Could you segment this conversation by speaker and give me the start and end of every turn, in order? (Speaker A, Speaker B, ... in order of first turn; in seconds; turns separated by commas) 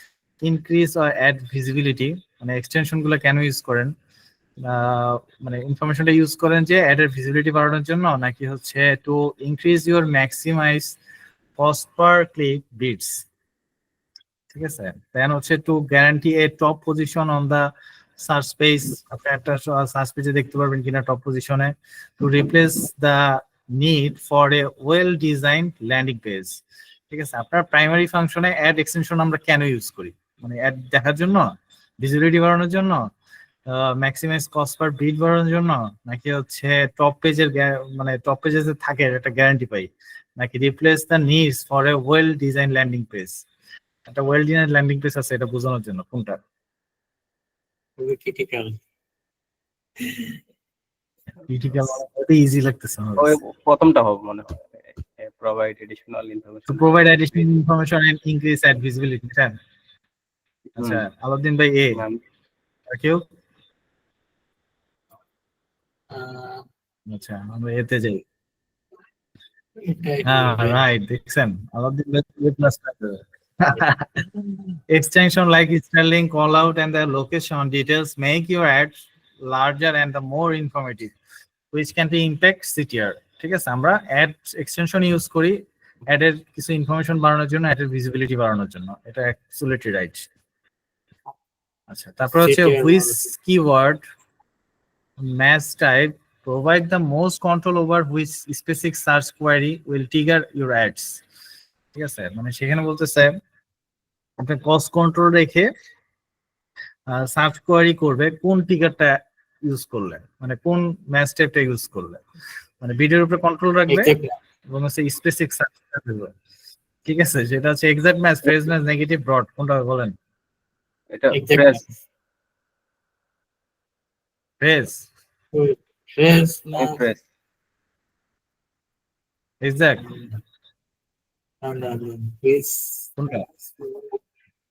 Speaker A: 0.4-3.9, Speaker A: 4.6-11.0, Speaker A: 11.6-13.3, Speaker A: 14.5-33.1, Speaker A: 33.7-43.5, Speaker A: 44.1-46.4, Speaker B: 48.0-48.8, Speaker B: 50.0-50.4, Speaker A: 51.5-53.4, Speaker C: 53.2-57.5, Speaker A: 56.7-59.5, Speaker C: 60.8-61.0, Speaker A: 60.8-62.0, Speaker C: 61.9-62.2, Speaker A: 62.9-63.2, Speaker B: 66.1-66.6, Speaker A: 67.1-68.2, Speaker B: 69.8-70.8, Speaker A: 70.2-74.3, Speaker A: 74.9-81.1, Speaker A: 81.7-90.3, Speaker A: 91.9-94.0, Speaker B: 92.4-93.3, Speaker A: 95.2-101.2, Speaker A: 101.9-103.4, Speaker A: 104.4-105.7, Speaker A: 107.1-112.2, Speaker A: 112.8-114.1, Speaker B: 113.9-114.3, Speaker A: 114.7-116.3, Speaker A: 117.0-120.2, Speaker C: 121.1-121.8, Speaker B: 121.3-121.8, Speaker A: 124.6-125.1, Speaker B: 125.5-127.0, Speaker C: 126.8-127.2, Speaker A: 129.6-130.2, Speaker B: 131.6-134.2, Speaker A: 133.2-133.5